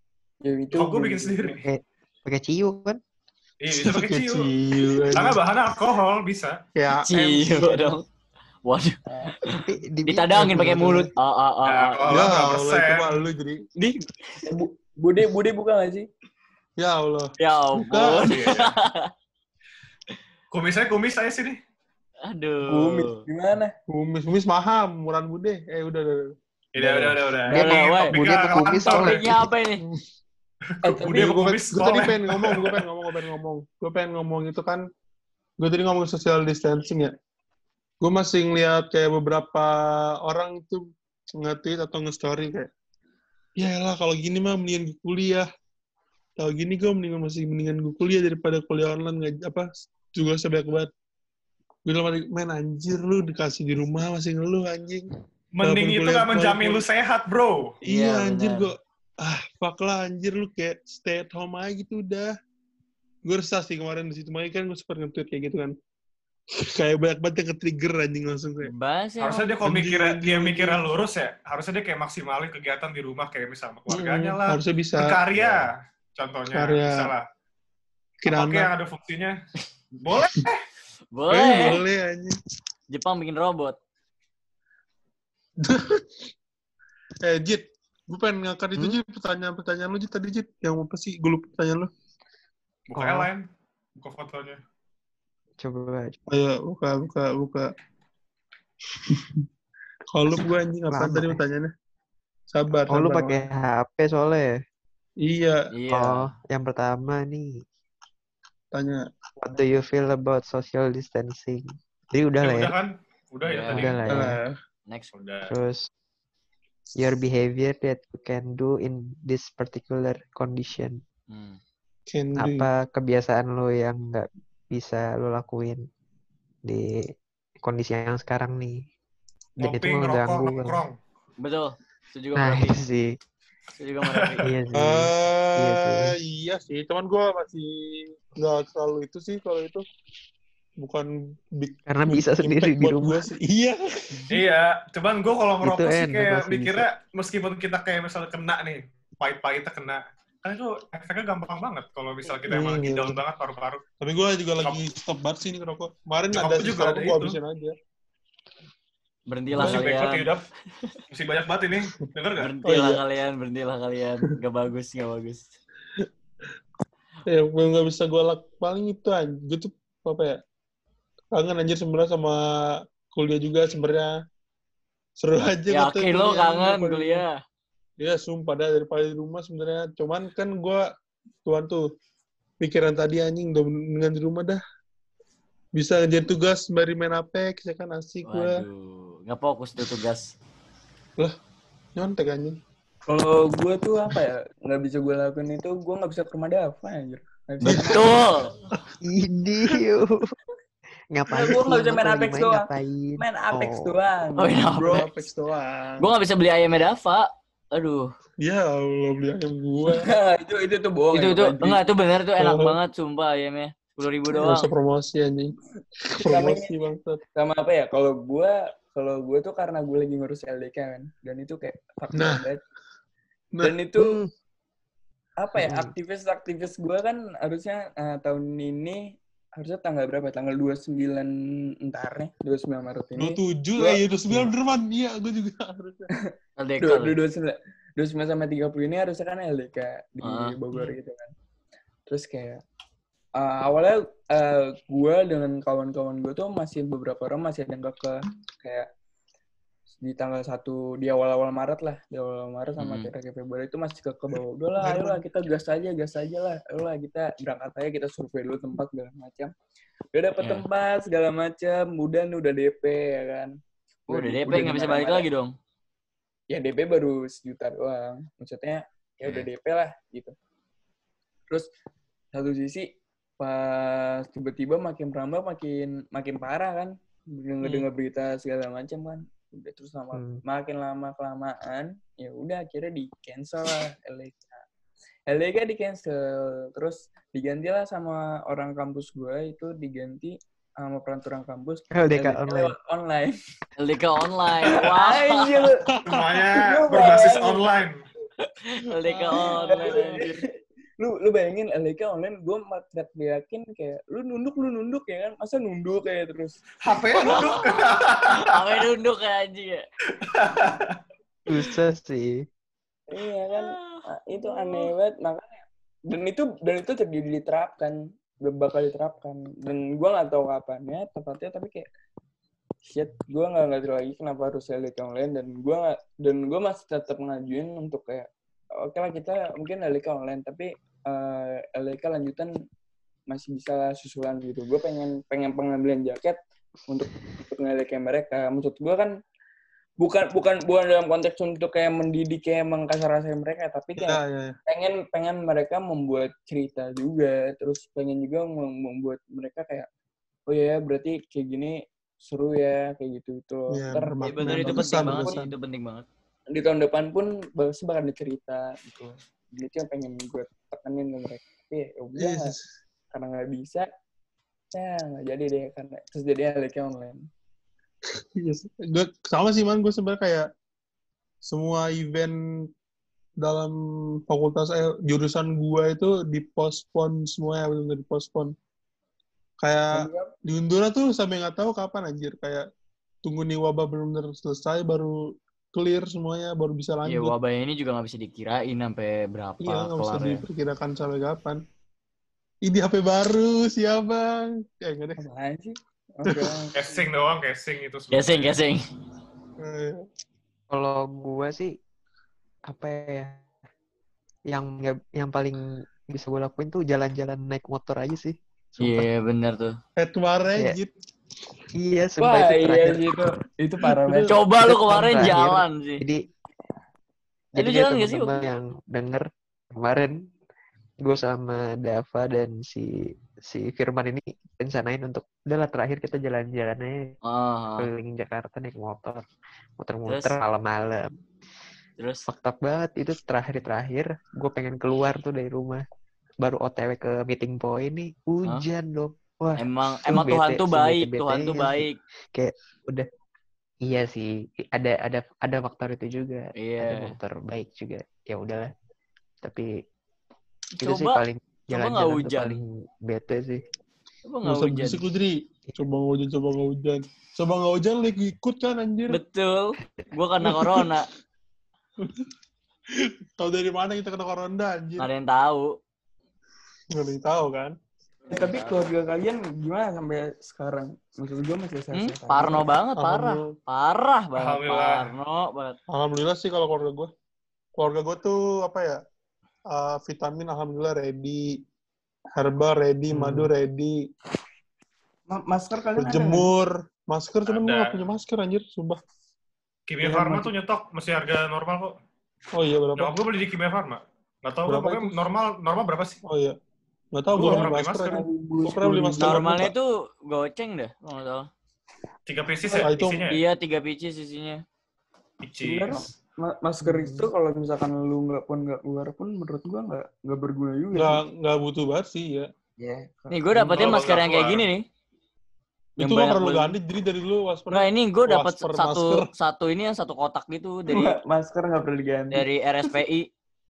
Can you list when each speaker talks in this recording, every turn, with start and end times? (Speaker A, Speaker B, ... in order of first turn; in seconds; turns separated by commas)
Speaker A: 0.4-1.6, Speaker B: 0.7-1.6, Speaker C: 1.6-3.0, Speaker B: 3.6-4.5, Speaker D: 3.7-5.4, Speaker B: 5.1-6.6, Speaker D: 6.8-7.9, Speaker E: 7.0-8.0, Speaker E: 8.7-12.2, Speaker A: 9.1-9.4, Speaker C: 9.5-11.0, Speaker D: 10.4-11.0, Speaker B: 11.7-13.2, Speaker D: 12.1-13.6, Speaker E: 13.8-14.5, Speaker A: 14.5-16.1, Speaker D: 16.8-18.4, Speaker E: 17.4-19.1, Speaker B: 18.2-18.7, Speaker B: 20.5-21.6, Speaker E: 22.2-23.2, Speaker A: 22.6-23.7, Speaker D: 23.9-26.2, Speaker B: 26.7-29.3, Speaker C: 27.5-29.5, Speaker E: 27.5-29.8, Speaker B: 30.7-32.8, Speaker A: 30.8-31.3, Speaker D: 31.0-34.8, Speaker D: 35.6-37.1, Speaker D: 38.0-42.7, Speaker D: 43.6-45.5, Speaker D: 46.4-50.9, Speaker D: 51.9-55.1, Speaker B: 55.5-57.7, Speaker D: 55.6-56.8, Speaker D: 57.8-62.3, Speaker E: 57.9-58.7, Speaker D: 63.2-65.7, Speaker D: 66.6-68.7, Speaker E: 68.6-69.4, Speaker B: 69.2-77.2, Speaker D: 69.6-70.8, Speaker D: 73.9-75.2, Speaker E: 75.3-75.7, Speaker D: 76.5-77.1, Speaker D: 78.2-78.7, Speaker B: 78.3-79.3, Speaker B: 80.0-80.6, Speaker E: 81.1-81.8, Speaker D: 81.3-82.4, Speaker E: 82.9-83.7, Speaker D: 85.6-86.3, Speaker D: 87.2-91.9, Speaker B: 92.9-93.4, Speaker C: 93.0-93.3, Speaker B: 94.0-94.6, Speaker C: 95.6-96.2, Speaker D: 96.3-97.7, Speaker D: 99.0-99.4, Speaker D: 100.1-101.7, Speaker C: 100.9-101.4, Speaker D: 102.5-103.5, Speaker C: 102.9-104.5, Speaker D: 105.2-105.6, Speaker E: 105.7-106.3, Speaker C: 105.9-107.5, Speaker D: 108.7-109.0, Speaker C: 109.4-112.7, Speaker B: 112.4-114.0, Speaker E: 113.4-114.3, Speaker C: 113.7-114.4, Speaker D: 114.1-114.6, Speaker B: 115.1-115.5, Speaker C: 115.4-115.9, Speaker C: 117.0-121.0, Speaker E: 121.3-121.6, Speaker D: 122.1-122.7, Speaker C: 122.4-125.8, Speaker C: 126.6-127.0, Speaker C: 127.6-128.8, Speaker C: 129.6-130.8, Speaker B: 129.6-130.9, Speaker E: 131.4-132.8, Speaker C: 132.3-133.2, Speaker E: 133.8-134.5, Speaker C: 134.4-136.1, Speaker D: 134.7-139.8, Speaker D: 140.8-144.3, Speaker C: 141.9-143.2, Speaker B: 144.3-153.8, Speaker C: 145.6-146.9, Speaker D: 152.5-153.2, Speaker D: 154.0-157.7, Speaker B: 156.3-157.4, Speaker E: 159.3-160.9, Speaker D: 159.6-160.1, Speaker B: 159.6-160.4, Speaker B: 161.1-162.5, Speaker E: 162.4-165.5, Speaker D: 162.6-163.0, Speaker D: 167.3-170.4, Speaker D: 171.3-172.4, Speaker D: 173.1-174.1, Speaker D: 175.2-177.2, Speaker E: 175.7-177.4, Speaker D: 178.0-180.8, Speaker D: 181.4-181.9, Speaker D: 182.6-184.6, Speaker D: 185.7-188.6, Speaker E: 188.2-190.3, Speaker D: 191.9-192.6, Speaker A: 193.1-198.2, Speaker D: 197.6-198.1, Speaker E: 197.6-198.5, Speaker C: 199.0-200.3, Speaker C: 201.1-203.9, Speaker A: 201.3-202.7, Speaker A: 203.2-205.1, Speaker E: 204.4-205.1, Speaker D: 204.8-206.1, Speaker E: 206.0-208.1, Speaker D: 208.4-210.1, Speaker A: 209.9-211.8, Speaker E: 211.1-214.7, Speaker D: 212.4-212.8, Speaker D: 214.3-217.2, Speaker A: 216.1-216.7, Speaker A: 217.3-222.6, Speaker D: 222.1-222.4, Speaker A: 223.6-224.2, Speaker C: 224.0-224.3, Speaker A: 225.4-234.0, Speaker C: 225.6-225.9, Speaker D: 233.2-236.1, Speaker A: 236.2-241.3, Speaker E: 236.6-237.2, Speaker E: 240.2-240.6, Speaker A: 242.1-242.6, Speaker A: 243.4-248.9, Speaker A: 250.0-259.5, Speaker E: 252.8-253.1, Speaker D: 254.8-255.2, Speaker A: 260.1-265.2, Speaker E: 264.1-265.5, Speaker A: 266.5-270.3, Speaker A: 272.3-284.6, Speaker C: 280.1-280.4, Speaker A: 285.3-293.4, Speaker C: 291.9-292.7, Speaker E: 293.8-295.7, Speaker A: 294.6-297.6, Speaker D: 295.9-296.2, Speaker B: 296.1-297.9, Speaker E: 298.6-300.4, Speaker D: 299.0-300.1, Speaker A: 299.3-300.5, Speaker A: 301.0-307.5, Speaker B: 306.8-308.5, Speaker E: 307.2-309.8, Speaker B: 310.2-310.9, Speaker C: 311.5-312.4, Speaker A: 313.1-321.9, Speaker E: 313.5-314.9, Speaker A: 322.8-332.5, Speaker A: 333.3-339.1, Speaker A: 340.0-349.9, Speaker D: 344.0-344.6, Speaker A: 350.5-355.3, Speaker D: 353.7-355.5, Speaker E: 354.2-356.1, Speaker A: 356.5-362.5, Speaker D: 362.1-362.6, Speaker A: 363.1-363.9, Speaker A: 364.7-367.2, Speaker D: 368.4-370.5, Speaker D: 371.4-372.4, Speaker D: 373.4-373.7, Speaker D: 374.3-378.5, Speaker D: 379.6-382.6, Speaker A: 379.9-380.3, Speaker D: 383.2-387.3, Speaker E: 387.0-390.4, Speaker D: 389.6-391.6, Speaker D: 392.6-395.2, Speaker A: 395.2-397.0, Speaker D: 396.2-396.6, Speaker B: 396.7-398.5, Speaker E: 398.1-398.8, Speaker D: 399.6-400.0, Speaker C: 400.7-401.7, Speaker C: 402.7-403.4, Speaker C: 404.5-409.1, Speaker E: 408.8-409.7, Speaker D: 410.0-410.9, Speaker C: 411.8-413.3, Speaker A: 412.2-414.4, Speaker D: 413.8-414.3, Speaker E: 414.2-416.0, Speaker C: 414.6-416.2, Speaker C: 417.5-420.1, Speaker E: 417.6-418.3, Speaker C: 421.0-422.9, Speaker C: 423.5-427.1, Speaker E: 427.2-427.9, Speaker C: 427.8-429.2, Speaker C: 429.8-431.1, Speaker E: 430.1-430.4, Speaker E: 432.0-432.3, Speaker C: 432.3-435.8, Speaker C: 436.4-443.1, Speaker E: 439.6-442.0, Speaker C: 443.8-448.7, Speaker E: 446.6-447.1, Speaker C: 449.4-449.7, Speaker E: 450.8-452.6, Speaker C: 450.8-453.6, Speaker E: 454.3-455.1, Speaker D: 454.4-459.2, Speaker E: 459.1-461.1, Speaker D: 460.4-460.9, Speaker D: 462.0-462.3, Speaker D: 462.9-465.1, Speaker E: 465.0-465.7, Speaker D: 466.9-467.7, Speaker E: 468.2-468.9, Speaker A: 468.3-472.7, Speaker E: 471.9-475.8, Speaker D: 473.0-473.5, Speaker B: 474.4-475.1, Speaker D: 475.9-477.1, Speaker D: 477.8-479.0, Speaker D: 479.7-481.6, Speaker D: 482.3-483.9, Speaker C: 483.1-483.5, Speaker A: 485.3-486.5, Speaker D: 485.9-489.0, Speaker B: 487.5-488.0, Speaker B: 489.9-491.9, Speaker D: 490.0-490.5, Speaker D: 492.5-493.2, Speaker B: 493.0-496.2, Speaker D: 494.6-495.1, Speaker D: 496.2-496.6, Speaker D: 497.1-499.7, Speaker B: 497.4-498.2, Speaker A: 497.4-499.4, Speaker E: 499.2-501.5, Speaker B: 502.3-503.4, Speaker D: 502.8-503.2, Speaker E: 503.3-504.6, Speaker B: 505.4-506.0, Speaker A: 505.6-511.2, Speaker C: 506.8-507.3, Speaker D: 510.9-512.5, Speaker A: 512.8-514.1, Speaker E: 513.3-514.8, Speaker B: 513.7-514.6, Speaker D: 516.0-519.3, Speaker E: 516.0-516.8, Speaker E: 517.7-521.1, Speaker A: 520.9-522.5, Speaker E: 522.3-523.2